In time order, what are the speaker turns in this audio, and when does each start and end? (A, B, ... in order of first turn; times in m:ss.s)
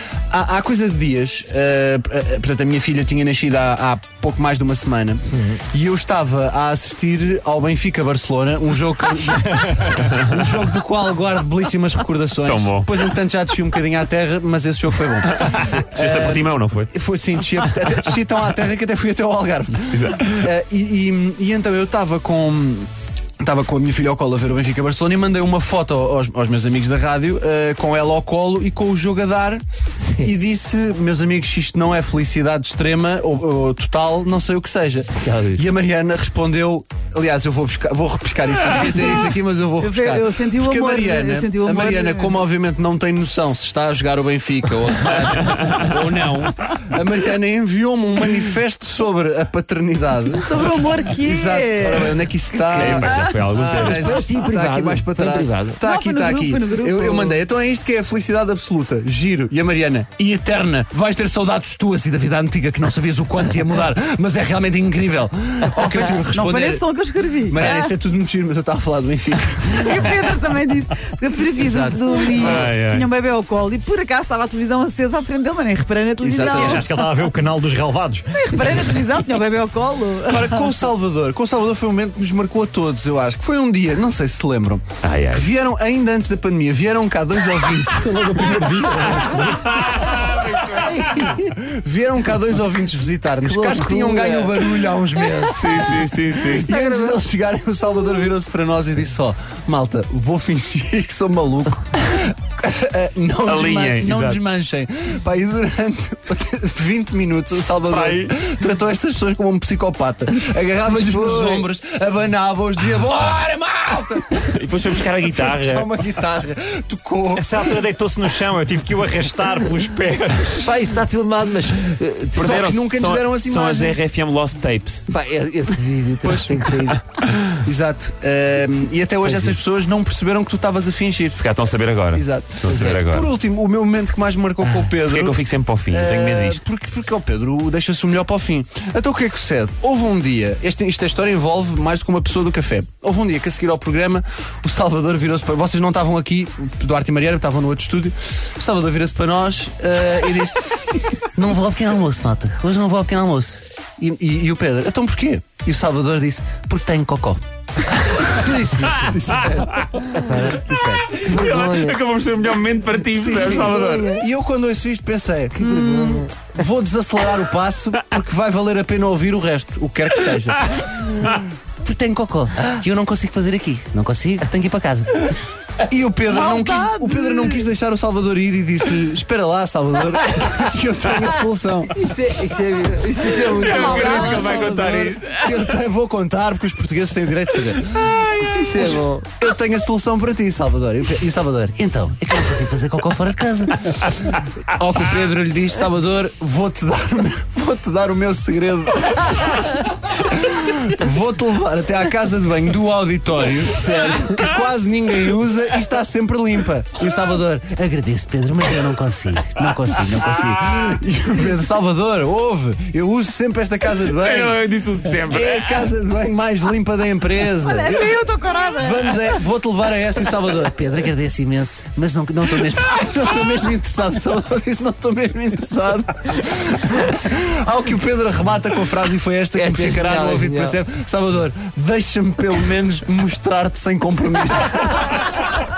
0:00.3-0:22.9 A
0:12.4-0:13.0 B
0:15.3-0:16.9 B
0:19.9-0:20.4 B
0:23.4-0:29.6 A
0:30.0-0:30.3 C
0:30.2-1:06.9 A
0:35.1-0:35.6 C
0:39.8-0:42.4 D
0:50.4-0:52.1 D
0:52.7-0:54.3 B
0:52.8-0:53.4 D
0:53.7-0:55.8 C
0:55.8-0:57.4 D
1:06.3-1:07.9 D
1:07.5-1:10.2 A
1:09.8-1:17.0 D
1:11.6-1:12.7 A
1:12.3-1:13.1 B
1:16.2-1:16.9 A
1:16.5-1:19.0 E
1:18.4-1:20.7 D
1:20.3-1:29.6 A
1:25.0-1:25.5 B
1:28.2-1:29.7 C
1:29.6-1:31.2 B
1:30.8-1:57.8 A
1:31.0-1:31.4 C
1:33.4-1:34.6 C
1:35.5-1:36.7 B
1:36.6-1:37.2 C
1:43.5-1:44.4 B
1:47.9-1:48.3 E
1:50.9-1:51.7 C
1:54.5-1:55.9 B
1:57.3-2:00.8 E
2:00.6-2:02.7 C
2:02.4-2:04.0 A
2:02.4-2:05.1 B
2:05.1-2:07.0 C
2:06.2-2:06.9 A
2:07.6-2:11.5 A
2:09.2-2:09.6 C
2:11.4-2:13.3 B
2:12.1-2:37.4 A
2:12.7-2:13.0 C
2:15.1-2:16.6 B
2:38.2-2:39.6 C
2:38.4-2:41.0 A
2:38.9-2:40.2 B
2:40.1-2:42.0 C
2:41.1-2:44.2 B
2:43.1-2:51.1 A
2:43.4-2:44.2 C
2:45.6-2:46.3 C
2:50.7-2:51.4 B
2:51.8-2:55.3 A
2:55.9-3:01.9 A
2:56.3-2:57.7 D
3:02.0-3:04.7 C
3:03.4-3:04.5 D
3:03.5-3:05.8 B
3:03.6-3:34.6 A
3:08.4-3:09.3 C
3:34.0-3:35.9 B
3:35.3-3:38.3 A
3:37.5-3:39.3 D
3:38.8-3:55.2 A
3:49.6-3:50.8 C